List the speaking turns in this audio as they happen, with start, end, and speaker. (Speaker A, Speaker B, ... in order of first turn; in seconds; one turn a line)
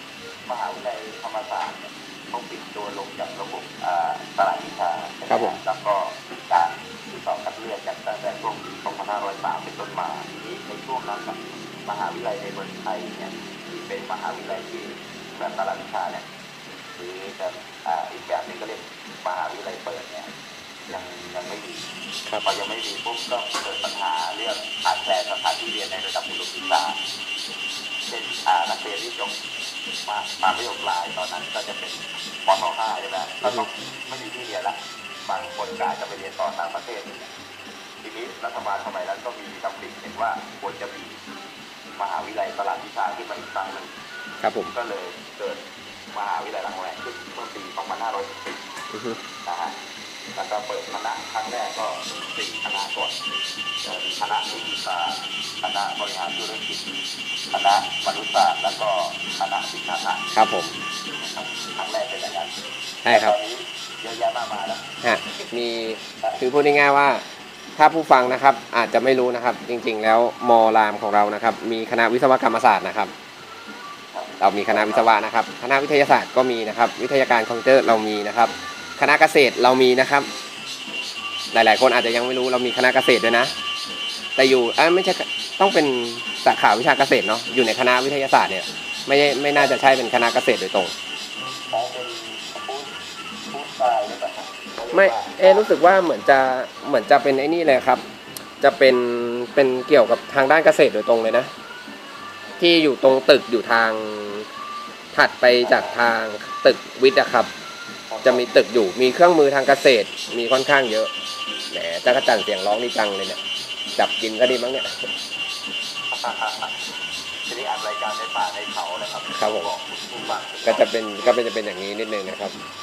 Speaker A: 0.5-16.2
Speaker B: 5.3-5.6
Speaker A: 17.0-20.3
Speaker A: 20.9-21.8
Speaker A: 22.4-27.0
Speaker A: 28.1-29.4
Speaker A: 30.1-37.3
Speaker A: 38.0-41.2
Speaker A: 42.0-43.9
Speaker B: 44.4-44.7
Speaker A: 44.7-45.6
Speaker A: 46.1-48.6
Speaker B: 48.9-49.2
Speaker A: 49.5-49.8
Speaker A: 50.4-53.1
Speaker A: 53.8-56.9
Speaker A: 57.5-60.2
Speaker B: 60.3-60.8
Speaker A: 61.2-62.5
Speaker B: 63.0-63.4
Speaker A: 63.1-64.8
Speaker B: 65.0-67.2
Speaker B: 67.8-73.1
Speaker A: 74.1-75.1
Speaker B: 74.4-80.3
Speaker B: 81.5-83.5
Speaker B: 84.4-90.9
Speaker A: 91.7-92.9
Speaker A: 93.5-95.7
Speaker B: 94.9-98.0
Speaker B: 98.6-101.5
Speaker B: 102.6-104.5
Speaker B: 105.1-107.5
Speaker A: 105.6-106.0
Speaker A: 108.1-108.5
Speaker B: 108.2-111.1
Speaker B: 111.7-113.4
Speaker B: 114.0-114.9
Speaker A: 116.1-116.9
Speaker A: 117.5-120.9
Speaker B: 119.3-119.7
Speaker B: 120.6-122.5